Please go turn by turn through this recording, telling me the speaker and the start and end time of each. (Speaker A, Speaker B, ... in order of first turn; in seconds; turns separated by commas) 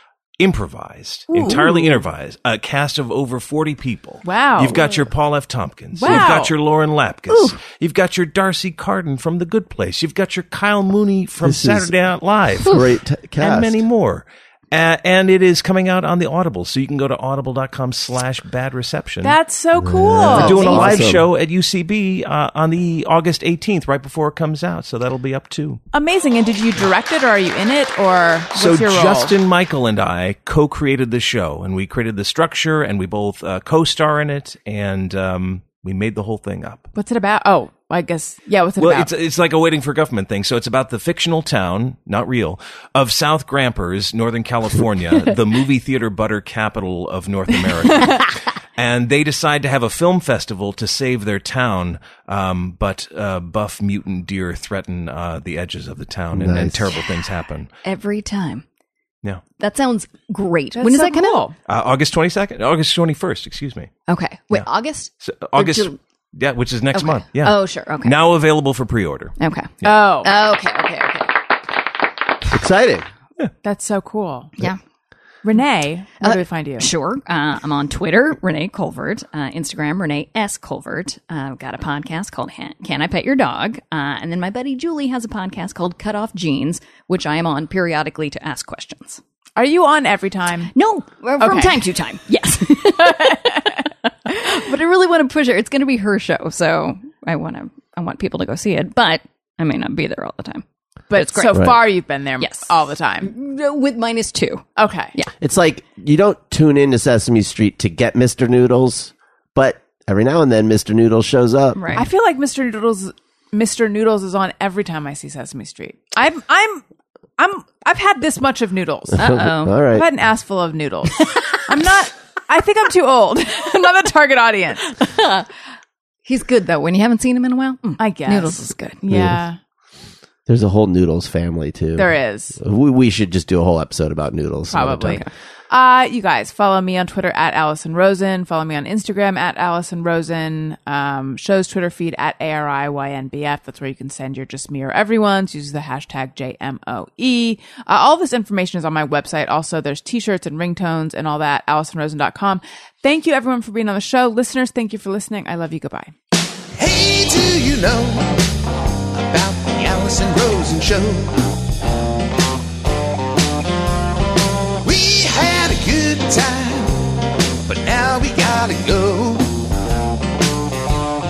Speaker A: 0.4-12.8, Speaker B: 1.3-2.0, Speaker B: 4.2-4.9, Speaker B: 5.9-6.5, Speaker C: 7.3-7.6, Speaker D: 11.4-11.9, Speaker D: 12.6-13.8, Speaker A: 13.4-19.4, Speaker B: 19.2-20.9, Speaker D: 19.8-21.3, Speaker A: 20.3-25.8, Speaker C: 20.4-20.9, Speaker B: 25.9-29.4, Speaker A: 28.6-36.9, Speaker B: 37.0-39.1, Speaker A: 38.8-57.7, Speaker D: 56.3-57.0, Speaker C: 57.8-58.6, Speaker C: 59.6-61.5, Speaker B: 60.8-61.6, Speaker A: 61.7-63.9, Speaker C: 64.1-66.0, Speaker A: 65.2-70.0, Speaker C: 66.9-68.2, Speaker C: 69.4-71.4, Speaker B: 69.8-70.3, Speaker D: 72.5-73.1, Speaker B: 73.6-74.5, Speaker B: 75.4-76.9, Speaker C: 76.2-89.2, Speaker B: 89.6-90.7, Speaker C: 90.7-101.8, Speaker B: 91.4-91.9, Speaker B: 101.1-103.3, Speaker C: 102.4-105.3, Speaker B: 104.8-105.1, Speaker D: 105.4-112.0, Speaker C: 111.8-112.1, Speaker B: 112.0-116.8, Speaker B: 117.4-124.9, Speaker D: 119.2-120.1, Speaker C: 119.2-119.8, Speaker C: 124.9-125.5, Speaker C: 126.3-129.0, Speaker B: 128.0-129.6, Speaker D: 129.1-129.4, Speaker D: 130.5-135.2, Speaker B: 132.0-132.6, Speaker B: 134.7-156.1, Speaker E: 156.8-158.5, Speaker E: 159.1-161.3, Speaker E: 164.8-167.0, Speaker E: 167.7-169.6